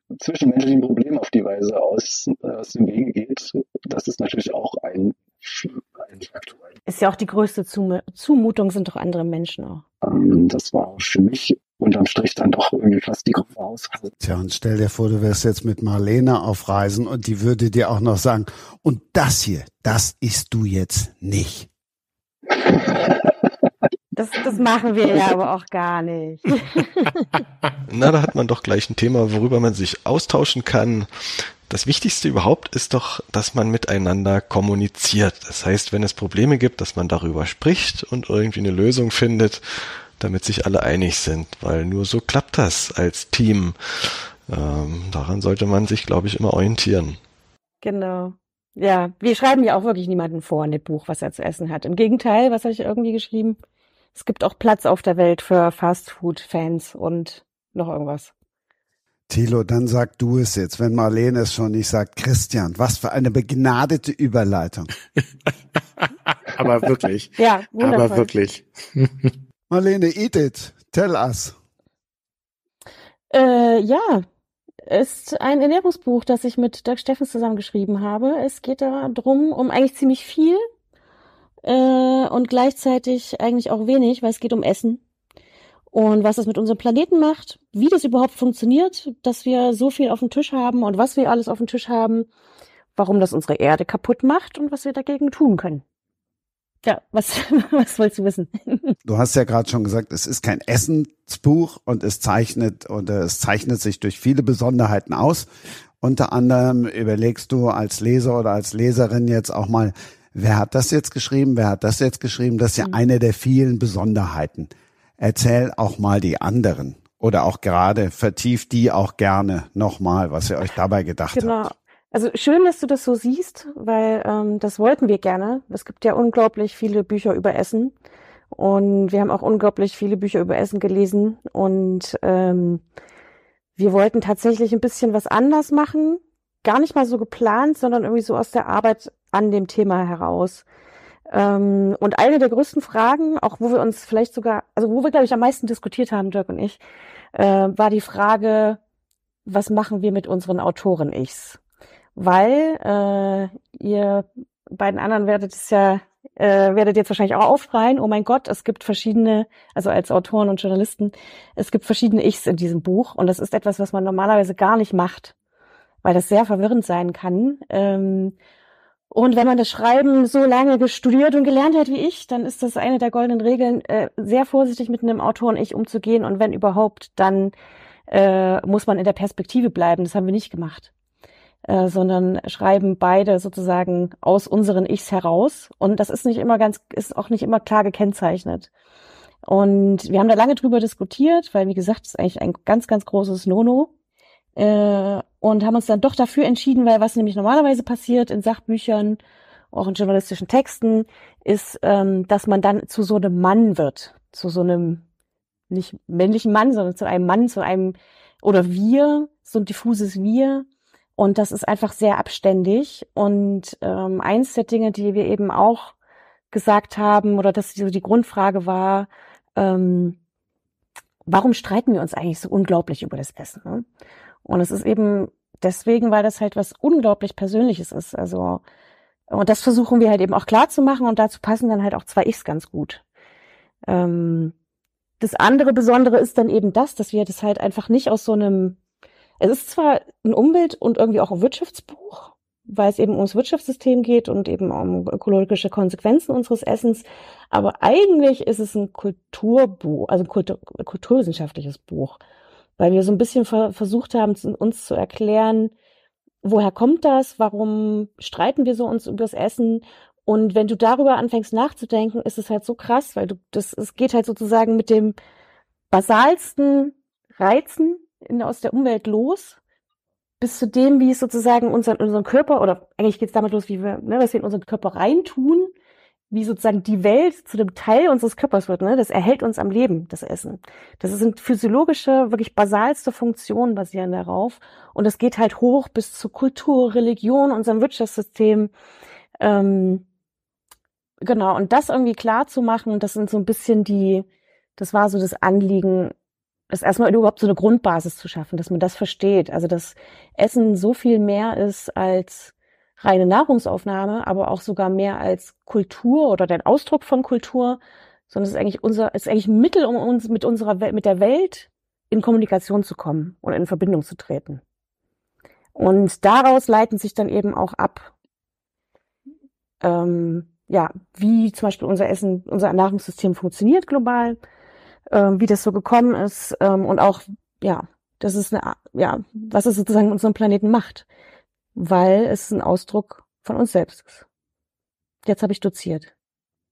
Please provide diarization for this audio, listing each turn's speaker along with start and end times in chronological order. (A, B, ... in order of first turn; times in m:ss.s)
0:00.2-0:06.7 A
0:06.9-0:09.8 B
0:10.0-0:14.1 A
0:14.2-0:21.7 C
0:22.5-0:23.3 A
0:24.1-0:27.3 B
0:27.9-0:47.2 D
0:47.8-0:53.6 B
0:54.2-0:58.3 B
0:59.3-1:04.9 C
1:06.0-1:09.3 E
1:07.4-1:08.3 B
1:09.7-1:11.6 C
1:13.3-1:14.2 B
1:14.9-1:20.6 B
1:21.6-1:25.0 B
1:25.9-1:32.3 B
1:33.0-1:35.8 B
1:36.8-1:38.9 B
1:39.0-1:45.5 C
1:46.0-2:01.6 C
2:01.3-2:07.9 B
2:08.5-2:12.8 B
2:13.8-2:20.6 B
2:21.3-2:26.8 B
2:27.3-2:28.8 B
2:29.5-2:31.6 B
2:32.2-2:45.3 B
2:46.0-2:48.4 B
2:49.1-2:57.5 B
2:58.1-3:00.9 B
3:01.7-3:08.7 B
3:09.4-3:13.9 B
3:14.6-3:19.2 B
3:19.7-3:25.0 B
3:25.7-3:30.7 B
3:31.2-3:36.0 B
3:36.5-3:40.2 B
3:41.3-3:43.8 B
3:44.4-3:48.6 B
3:49.3-3:53.0 B
3:53.9-3:54.5 B
3:55.2-3:58.8 B
3:59.4-4:12.2 B
4:12.8-4:15.7 B
4:16.4-4:25.2 B
4:25.9-4:29.6 B
4:30.4-4:35.7 B
4:36.3-4:48.7 B
4:49.4-4:50.0 B
4:51.2-4:54.3 B
4:54.8-4:56.1 B
4:56.7-5:14.6 B
5:15.8-5:18.1 B
5:19.8-5:24.4 B
5:25.1-5:31.0 B
5:31.8-5:34.2 B
5:35.2-5:36.1 B